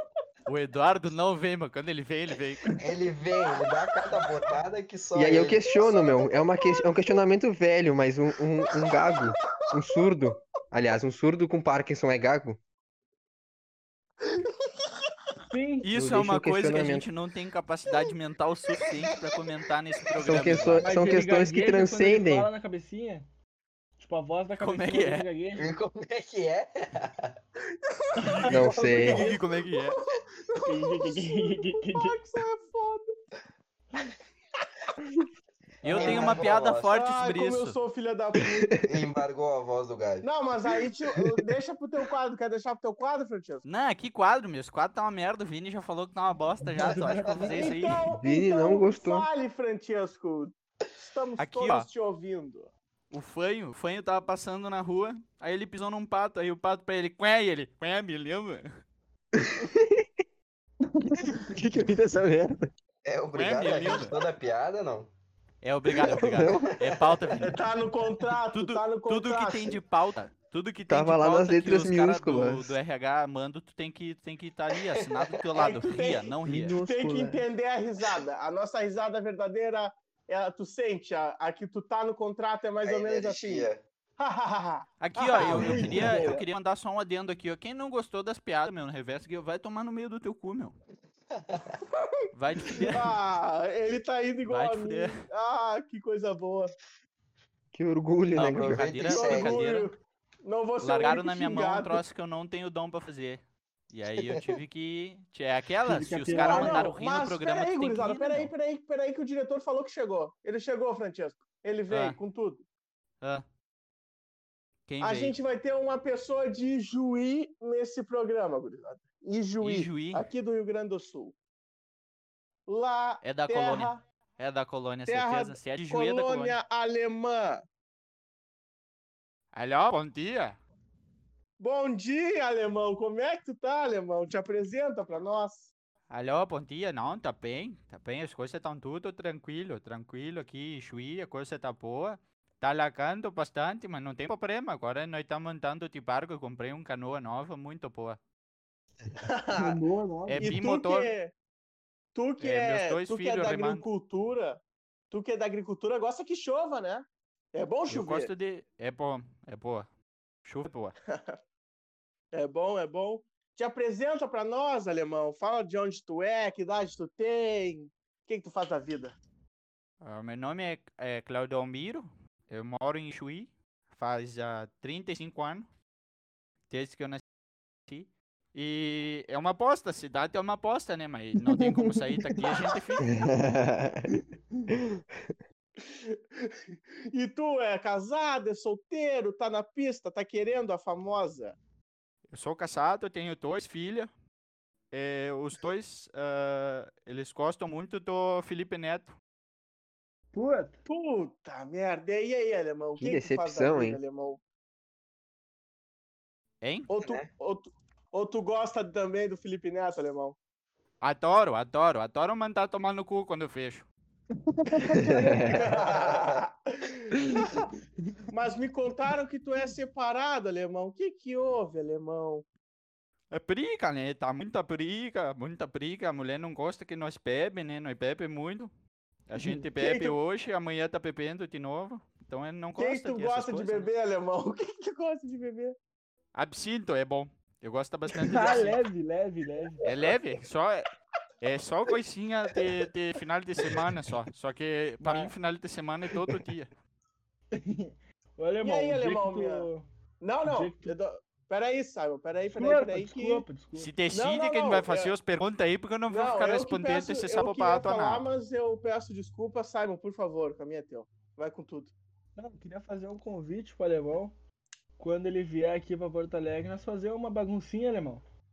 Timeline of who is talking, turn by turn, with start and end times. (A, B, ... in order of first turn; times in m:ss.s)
0:00.5-0:02.8 A
0:02.8-0:05.8 B
0:05.1-0:12.6 C
0:05.8-0:06.8 D
0:08.8-0:09.2 D
0:15.5-0:15.9 E
0:15.8-0:20.9 A
0:15.9-0:17.1 C
0:20.2-0:22.5 C
0:20.8-0:23.3 E
0:24.0-0:25.7 E
0:24.6-0:25.2 A
0:25.6-0:27.3 B
0:28.2-0:33.1 D
0:28.2-0:29.4 E
0:28.4-0:30.0 A
0:28.5-0:29.2 C
0:30.6-0:32.2 E
0:35.8-0:37.8 A
0:35.9-0:36.9 B
0:35.9-0:36.3 E
0:36.0-0:38.8 D
0:38.8-0:40.3 B
0:40.2-0:43.6 D
0:43.6-0:48.0 A
0:46.8-0:47.7 E
0:47.4-0:52.7 D
0:48.2-0:49.3 C
0:51.4-0:51.9 A
0:53.1-0:58.6 A
0:59.3-1:00.0 C
1:01.2-1:02.7 C
1:03.0-1:05.1 B
1:03.3-1:04.1 A
1:05.6-1:07.6 A
1:06.0-1:06.7 C
1:07.4-1:09.8 D
1:08.5-1:16.8 A
1:10.9-1:12.7 C
1:15.0-1:15.3 B
1:15.5-1:26.4 D
1:16.4-1:17.4 C
1:22.8-1:23.8 B
1:25.0-1:30.8 A
1:25.9-1:26.3 E
1:31.3-1:31.8 B
1:32.3-1:33.2 A
1:32.7-1:36.7 D
1:34.4-1:35.2 A
1:37.7-1:38.8 C
1:38.3-1:39.9 A
1:38.4-1:39.7 B
1:39.0-1:42.0 D
1:40.8-1:48.5 A
1:44.2-1:44.6 B
1:45.8-1:46.9 E
1:46.3-1:52.6 D
1:51.9-1:52.2 A
1:54.9-1:55.4 A
1:55.0-2:01.3 D
1:59.6-2:00.2 A
2:02.7-2:04.0 D
2:03.2-2:06.6 A
2:05.1-2:07.6 D
2:09.5-2:10.6 A
2:11.6-2:15.7 D
2:16.1-2:28.2 A
2:29.2-2:29.8 D
2:29.5-2:30.6 E
2:30.3-2:31.1 A
2:30.4-2:31.3 D
2:32.1-2:38.3 D
2:32.4-2:33.8 A
2:37.9-2:39.9 A
2:40.4-2:40.9 A
2:41.1-2:41.4 D
2:42.3-2:49.2 D
2:50.0-2:55.7 A
2:56.7-2:57.2 A
2:57.9-3:03.0 A
3:01.6-3:02.4 E
3:03.0-3:04.2 C
3:04.7-3:05.3 C
3:05.8-3:11.6 D
3:12.3-3:14.1 A
3:14.9-3:19.2 A
3:20.3-3:20.8 E
3:20.9-3:24.4 D
3:23.0-3:24.0 C
3:26.6-3:26.9 A
3:26.9-3:30.4 D
3:27.0-3:27.3 B
3:31.0-3:33.9 A
3:34.5-3:35.5 E
3:35.0-3:35.6 C
3:35.2-3:37.6 D
3:35.9-3:36.4 B
3:38.3-3:42.4 D
3:43.3-3:48.7 A
3:49.3-3:53.9 A
3:49.4-3:49.6 E
3:49.8-3:50.2 D
3:52.8-3:55.8 D
3:56.3-3:58.8 A
3:58.2-3:59.9 E
3:59.8-4:00.9 A
4:01.4-4:06.7 A
4:05.0-4:05.3 E
4:07.5-4:09.9 E
4:08.6-4:09.7 D
4:10.2-4:13.4 D
4:10.4-4:10.9 E
4:12.5-4:13.9 E
4:13.8-4:18.2 A
4:14.1-4:15.1 D
4:16.1-4:21.9 D
4:22.4-4:24.3 E
4:25.0-4:28.2 E